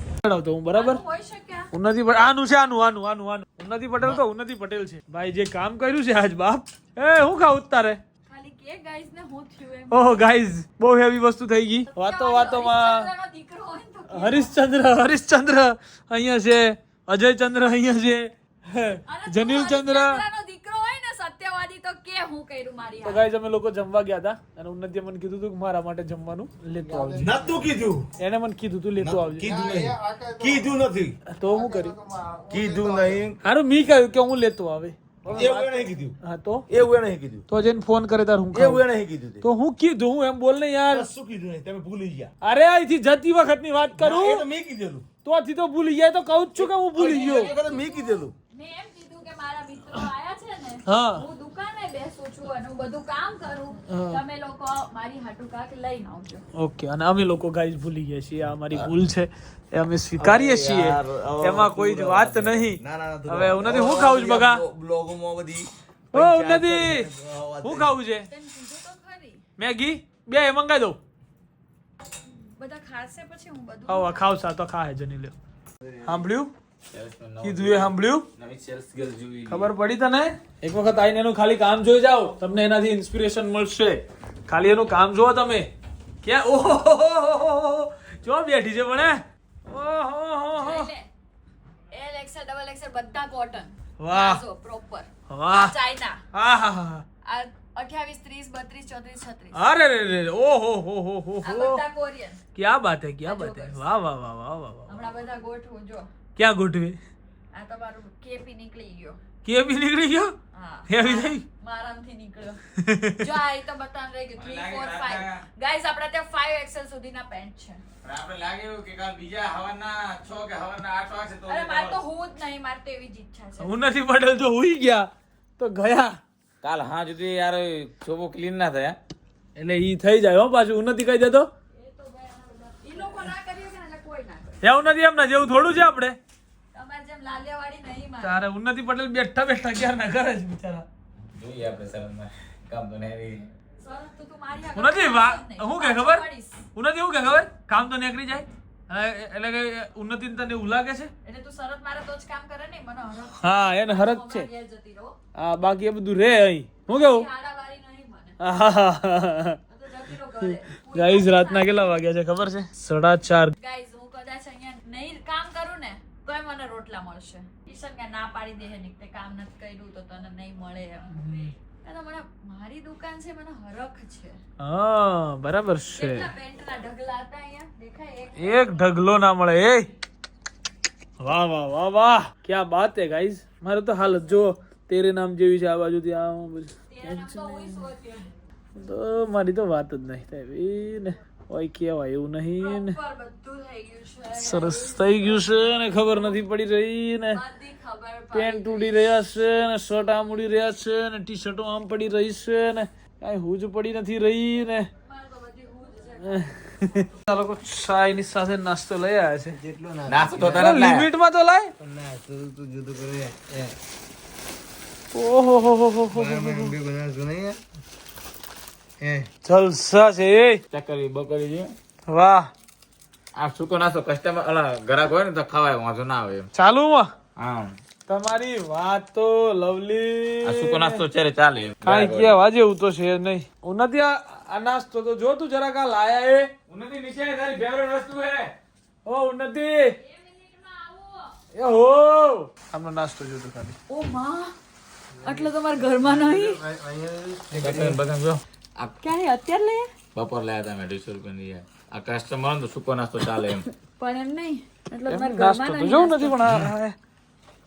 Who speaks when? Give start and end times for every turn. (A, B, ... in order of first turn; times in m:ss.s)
0:00.2-0:01.0 A
0:00.7-0:01.7 B
0:01.7-0:08.0 A
0:08.2-0:10.3 B
0:09.9-0:13.1 A
0:11.9-0:14.5 B
0:14.1-0:20.2 A
0:19.1-0:23.3 B
0:23.0-0:27.3 A
0:26.9-0:28.1 C
0:27.2-0:27.8 D
0:28.2-0:29.5 A
0:29.0-0:33.4 C
0:29.5-0:30.9 D
0:31.3-0:32.0 A
0:32.5-0:33.2 D
0:32.8-0:33.2 E
0:33.4-0:36.7 A
0:35.3-0:36.2 C
0:36.7-0:37.4 C
0:37.5-0:38.8 A
0:38.5-0:39.4 C
0:39.4-0:41.1 A
0:40.9-0:42.3 C
0:42.4-0:44.5 A
0:44.0-0:45.0 C
0:45.2-0:47.5 A
0:46.8-0:48.3 C
0:47.0-0:56.4 B
0:50.9-0:51.2 A
0:53.9-0:54.2 A
0:56.5-1:04.6 A
1:00.2-1:07.9 C
1:06.1-1:08.3 A
1:08.3-1:09.4 B
1:09.6-1:11.0 A
1:12.2-1:14.3 B
1:13.9-1:15.4 A
1:16.0-1:16.5 A
1:16.9-1:19.7 E
1:17.4-1:18.3 A
1:19.5-1:25.7 A
1:26.2-1:30.9 A
1:30.6-1:31.1 B
1:31.9-1:36.2 B
1:34.0-1:34.4 A
1:35.3-1:35.8 A
1:36.3-1:37.0 A
1:37.2-1:39.6 B
1:39.5-1:41.8 A
1:41.4-1:42.4 B
1:42.6-1:45.0 A
1:43.2-1:43.9 B
1:44.9-1:46.1 B
1:46.4-1:47.0 A
1:47.5-1:49.2 B
1:49.4-1:50.4 A
1:50.5-1:52.6 B
1:50.9-1:51.4 A
1:52.8-1:53.2 A
1:53.2-1:57.8 B
1:54.3-1:55.4 E
1:58.0-2:02.0 E
2:01.5-2:03.8 B
2:03.6-2:06.2 A
2:06.6-2:09.0 E
2:09.6-2:11.5 A
2:11.7-2:14.6 B
2:14.6-2:16.2 A
2:16.7-2:18.4 B
2:18.2-2:20.9 A
2:21.2-2:23.4 E
2:23.8-2:26.6 B
2:24.8-2:31.1 A
2:31.2-2:35.2 B
2:33.4-2:34.5 A
2:35.3-2:37.3 A
2:36.9-2:38.4 B
2:38.4-2:39.6 A
2:39.7-2:42.0 B
2:40.4-2:43.6 A
2:43.6-2:54.4 B
2:51.2-2:51.5 A
2:54.6-2:56.3 A
2:55.9-2:58.8 B
2:58.4-2:59.9 A
3:01.2-3:07.9 A
3:06.9-3:08.3 B
3:08.8-3:13.0 A
3:12.6-3:16.5 B
3:14.3-3:17.4 A
3:17.3-3:19.2 B
3:18.3-3:24.9 A
3:25.0-3:27.2 B
3:26.2-3:29.6 A
3:29.7-3:30.4 C
3:29.7-3:30.6 D
3:30.1-3:31.1 E
3:30.5-3:31.7 A
3:31.8-3:33.7 D
3:32.7-3:33.6 C
3:35.1-3:36.8 A
3:36.2-3:37.6 D
3:39.4-3:40.6 A
3:40.7-3:41.8 E
3:42.1-3:42.5 A
3:43.4-3:46.5 E
3:46.5-3:47.1 A
3:47.4-3:47.8 E
3:48.1-3:51.0 A
3:50.4-3:52.4 E
3:51.8-3:56.5 A
3:56.7-3:58.5 E
3:59.0-4:00.0 A
4:00.0-4:01.4 B
4:01.5-4:03.8 A
4:03.9-4:04.6 B
4:05.2-4:08.0 C
4:05.2-4:06.6 B
4:07.5-4:09.0 E
4:07.6-4:07.9 D
4:09.0-4:10.0 B
4:10.1-4:13.6 E
4:13.4-4:16.5 B
4:15.1-4:17.0 A